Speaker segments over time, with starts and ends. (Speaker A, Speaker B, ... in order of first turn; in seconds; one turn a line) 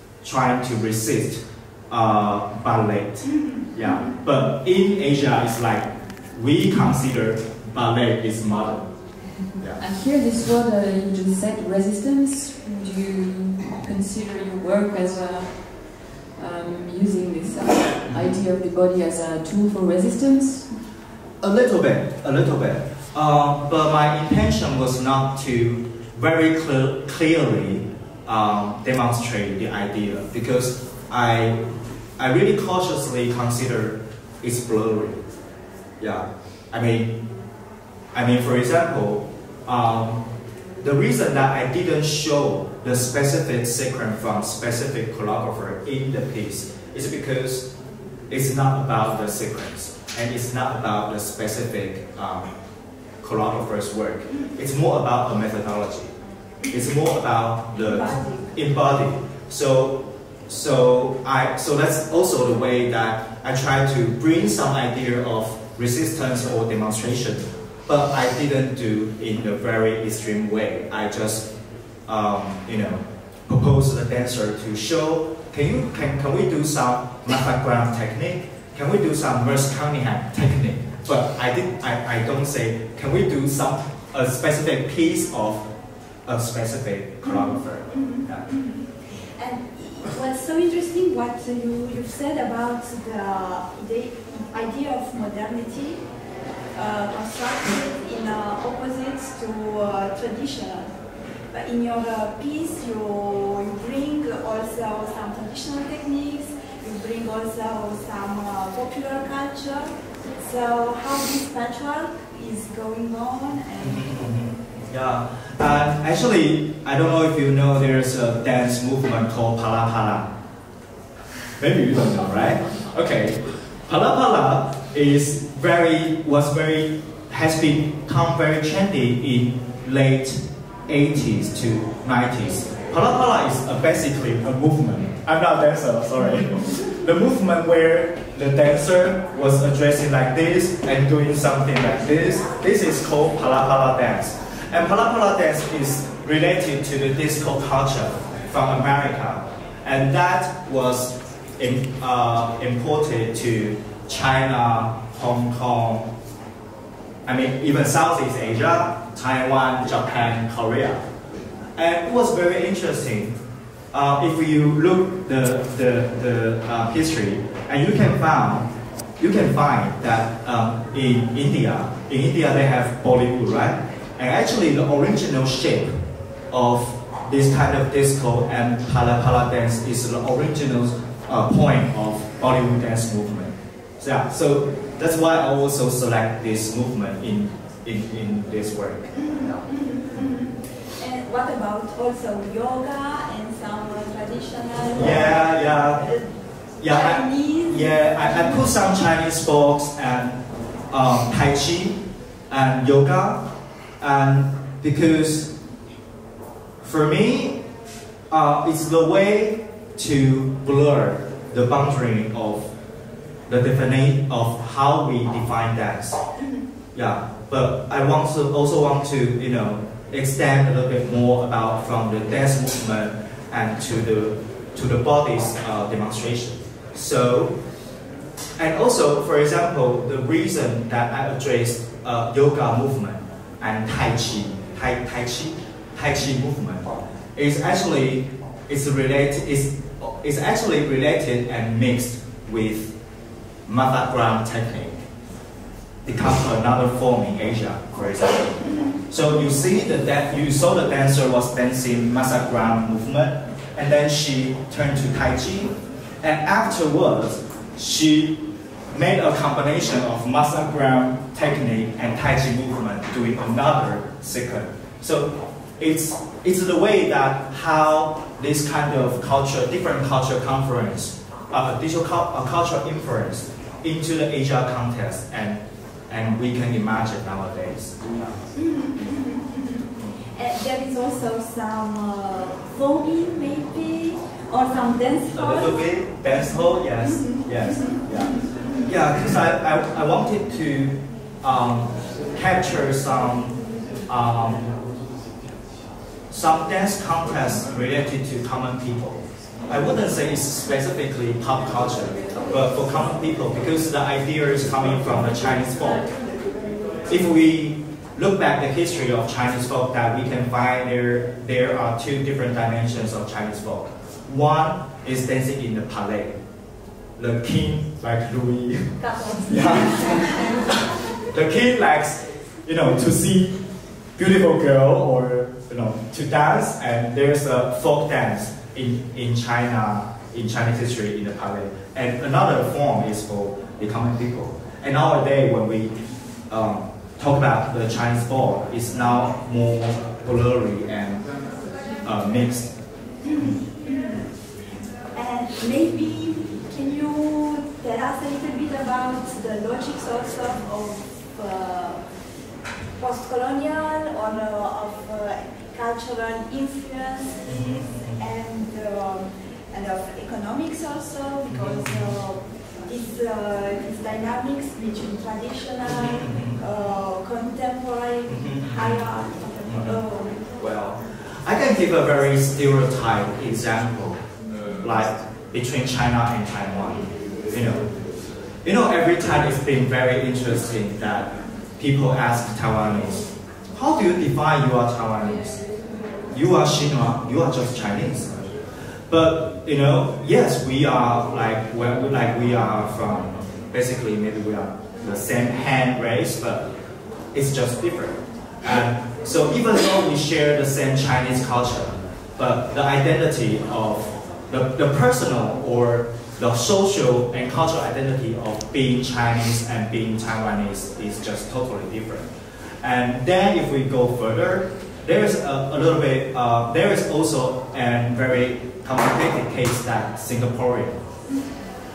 Speaker A: 0.2-8.9
Speaker B: 3.2-4.1
Speaker A: 9.5-9.8
Speaker C: 9.8-20.7
Speaker A: 18.1-18.4
Speaker A: 21.4-31.6
Speaker A: 32.2-35.2
Speaker A: 36.0-37.2
Speaker A: 38.1-40.2
Speaker A: 40.8-47.7
Speaker A: 48.3-52.5
Speaker A: 53.2-56.1
Speaker A: 56.7-71.5
Speaker B: 57.7-58.5
Speaker A: 72.1-85.7
Speaker A: 86.3-88.5
Speaker B: 87.2-96.0
Speaker B: 96.7-100.9
Speaker B: 101.5-114.1
Speaker A: 113.8-120.3
Speaker A: 121.6-156.1
Speaker A: 157.3-161.0
Speaker A: 161.8-163.4
Speaker A: 163.9-176.0
Speaker A: 176.5-189.6
Speaker B: 189.2-196.3
Speaker A: 194.9-196.1
Speaker A: 196.8-202.0
Speaker B: 196.8-198.9
Speaker A: 202.5-203.4
Speaker A: 204.0-205.5
Speaker A: 206.8-207.6
Speaker A: 208.3-212.7
Speaker A: 213.5-216.2
Speaker B: 216.4-216.7
Speaker A: 216.9-227.6
Speaker A: 228.6-242.9
Speaker A: 243.7-245.0
Speaker A: 246.1-278.4
Speaker B: 278.6-285.9
Speaker A: 285.3-294.7
Speaker B: 287.0-288.9
Speaker A: 296.3-306.1
Speaker A: 307.1-316.4
Speaker A: 317.2-320.5
Speaker B: 319.0-320.7
Speaker A: 321.1-323.6
Speaker A: 324.1-335.9
Speaker A: 336.5-341.2
Speaker A: 342.0-342.7
Speaker B: 343.2-344.3
Speaker B: 345.1-352.0
Speaker B: 353.0-370.4
Speaker A: 357.4-358.2
Speaker A: 361.5-362.2
Speaker A: 365.9-366.6
Speaker A: 368.3-369.1
Speaker A: 369.6-370.0
Speaker A: 370.6-374.2
Speaker A: 374.8-377.9
Speaker A: 378.6-385.6
Speaker A: 386.3-388.3
Speaker A: 389.1-396.6
Speaker A: 397.3-412.3
Speaker A: 412.8-421.0